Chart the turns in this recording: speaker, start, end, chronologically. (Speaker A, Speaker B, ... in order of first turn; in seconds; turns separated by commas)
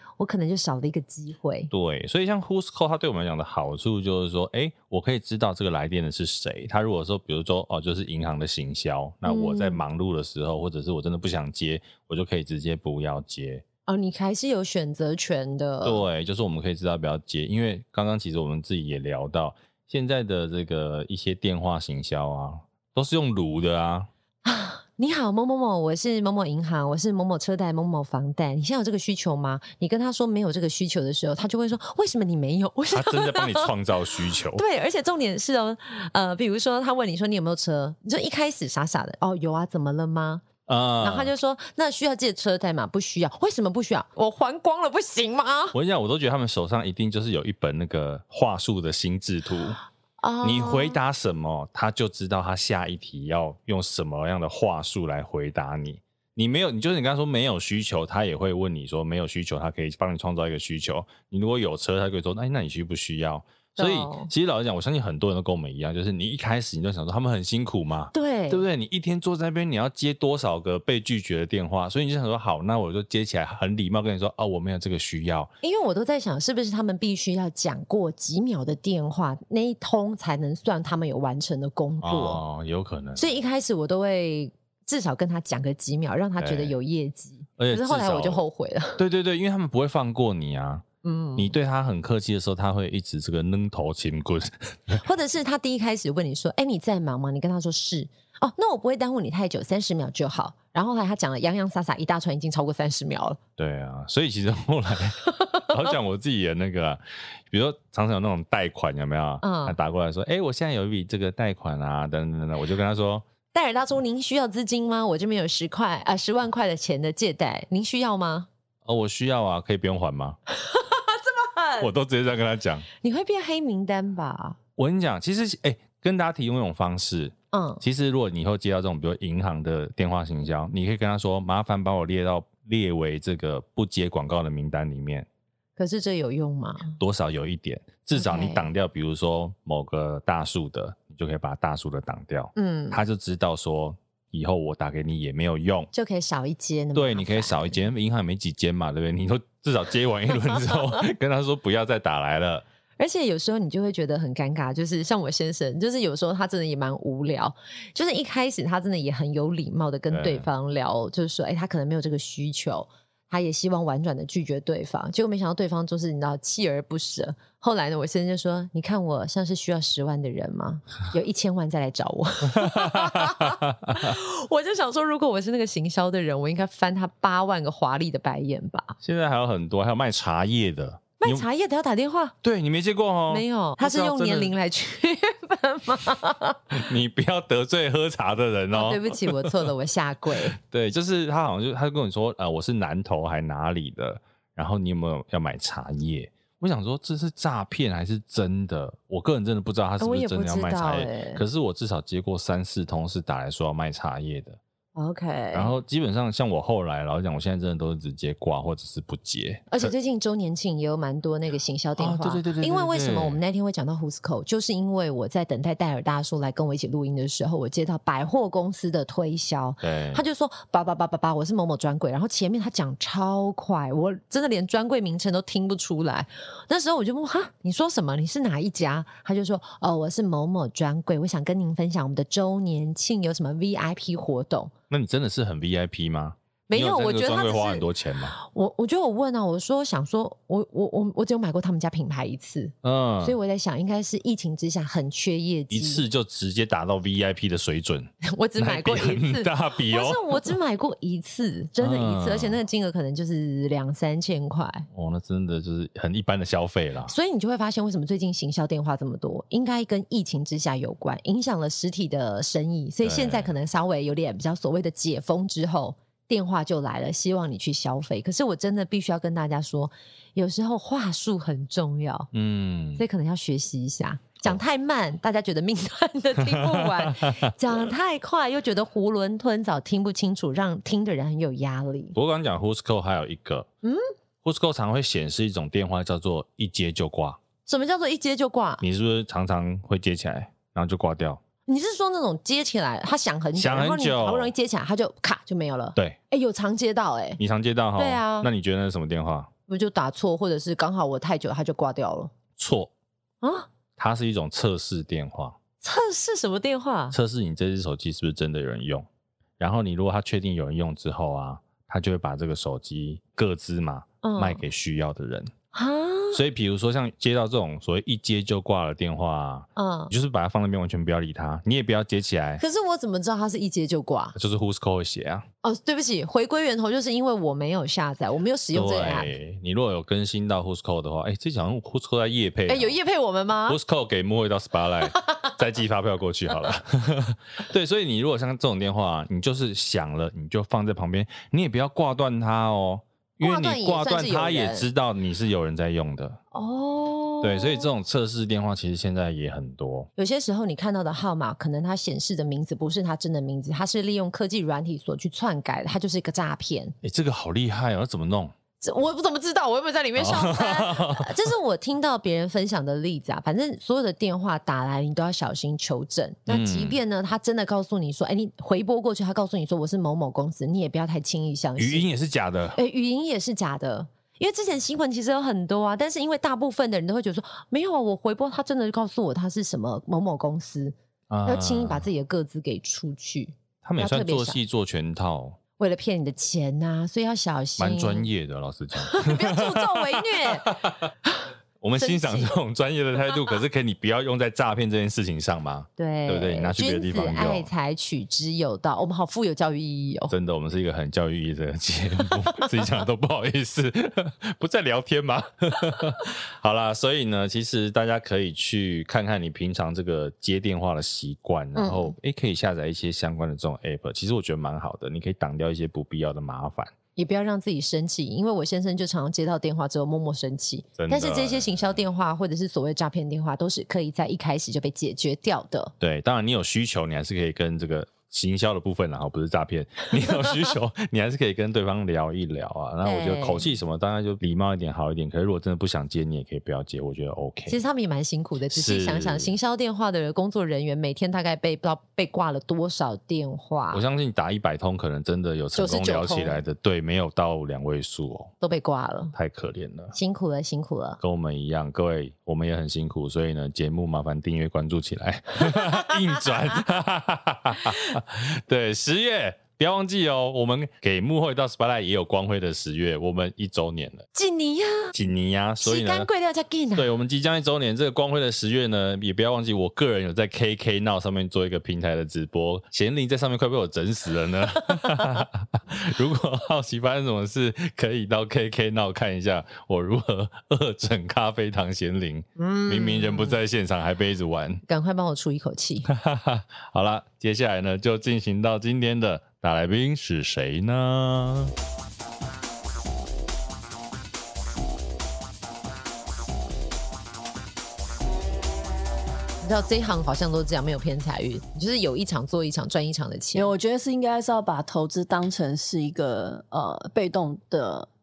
Speaker A: 0.2-1.7, Speaker B: 1.7-13.6, Speaker A: 9.2-9.8, Speaker A: 13.9-16.1, Speaker B: 15.8-24.1, Speaker A: 24.4-33.7, Speaker B: 32.9-34.6, Speaker A: 34.5-40.5, Speaker B: 40.7-41.3, Speaker A: 41.0-45.8, Speaker B: 45.7-49.8, Speaker A: 50.2-51.0, Speaker B: 50.4-75.5, Speaker A: 63.8-64.3, Speaker A: 68.1-68.7, Speaker A: 75.6-82.4, Speaker B: 82.0-83.4, Speaker A: 83.2-89.0, Speaker B: 86.4-86.8, Speaker B: 87.6-88.4, Speaker B: 89.0-95.0, Speaker A: 91.0-91.5, Speaker A: 95.0-103.4, Speaker B: 103.6-113.2, Speaker A: 109.4-109.8, Speaker A: 113.5-118.5, Speaker B: 118.9-120.4, Speaker A: 120.7-121.9, Speaker B: 121.8-122.9, Speaker A: 123.0-124.6, Speaker B: 124.8-135.3, Speaker A: 127.5-127.8, Speaker A: 135.8-137.0, Speaker B: 137.0-145.9, Speaker A: 138.2-138.7, Speaker A: 142.6-143.0, Speaker A: 145.9-147.8, Speaker B: 146.9-152.6, Speaker A: 153.0-179.0, Speaker B: 160.1-160.5, Speaker B: 172.5-174.2, Speaker B: 179.0-181.4, Speaker A: 181.2-182.3, Speaker B: 182.4-184.5, Speaker A: 183.3-186.7, Speaker B: 186.7-189.5, Speaker A: 188.7-190.6, Speaker B: 190.6-204.6, Speaker A: 200.0-201.4, Speaker A: 205.0-205.7, Speaker B: 205.5-209.9, Speaker A: 209.7-234.7, Speaker B: 212.0-213.4, Speaker B: 219.8-220.2, Speaker B: 234.9-238.4, Speaker A: 236.7-237.9, Speaker A: 238.4-246.1, Speaker B: 242.8-243.4, Speaker B: 245.7-250.4, Speaker A: 248.2-254.9, Speaker B: 251.8-252.6, Speaker B: 254.9-257.1, Speaker A: 257.1-272.3, Speaker B: 263.0-263.5, Speaker B: 272.3-273.1, Speaker A: 273.0-282.1, Speaker B: 276.4-277.5, Speaker B: 282.1-283.7, Speaker B: 284.4-287.4, Speaker A: 287.7-288.8, Speaker B: 288.8-291.4, Speaker A: 291.7-297.4, Speaker B: 293.6-294.5, Speaker B: 297.4-299.5, Speaker A: 298.0-298.5, Speaker A: 299.7-302.3, Speaker B: 302.6-302.9, Speaker A: 303.4-303.7, Speaker B: 304.0-305.6, Speaker A: 305.8-307.2, Speaker B: 307.1-309.1, Speaker B: 309.6-315.5, Speaker A: 314.2-314.6, Speaker A: 315.7-316.4, Speaker B: 316.3-322.6, Speaker A: 319.8-320.1, Speaker A: 322.6-324.4, Speaker B: 324.4-325.4, Speaker A: 325.6-329.3, Speaker B: 328.7-333.0, Speaker A: 332.7-333.8, Speaker B: 333.7-346.4, Speaker A: 343.4-344.9, Speaker A: 346.5-347.9, Speaker B: 347.4-350.1, Speaker A: 350.2-356.9, Speaker B: 357.0-358.5, Speaker A: 358.8-372.1, Speaker B: 360.2-361.3, Speaker B: 366.5-367.0, Speaker B: 371.8-372.8, Speaker A: 372.8-380.9, Speaker B: 381.3-382.1, Speaker A: 381.4-384.6, Speaker B: 383.8-385.6, Speaker A: 385.8-388.3, Speaker B: 387.8-391.1, Speaker A: 389.1-390.8, Speaker B: 391.8-397.7, Speaker A: 392.0-392.5, Speaker A: 396.0-400.3, Speaker B: 400.3-416.9, Speaker A: 411.8-412.1, Speaker A: 417.2-425.9, Speaker B: 421.0-422.0, Speaker B: 426.0-437.8, Speaker A: 433.0-433.7, Speaker A: 437.7-444.0, Speaker B: 438.7-439.5, Speaker B: 443.9-448.5, Speaker A: 445.8-446.6, Speaker A: 448.6-449.3, Speaker B: 449.3-450.1, Speaker A: 450.1-451.2, Speaker B: 451.2-464.3, Speaker A: 455.7-456.1, Speaker A: 464.4-465.1, Speaker B: 465.1-466.3, Speaker A: 465.8-467.1, Speaker B: 467.0-484.8, Speaker A: 482.6-483.6, Speaker A: 484.9-486.1, Speaker B: 486.1-491.7, Speaker A: 499.6-503.7, Speaker C: 503.6-508.1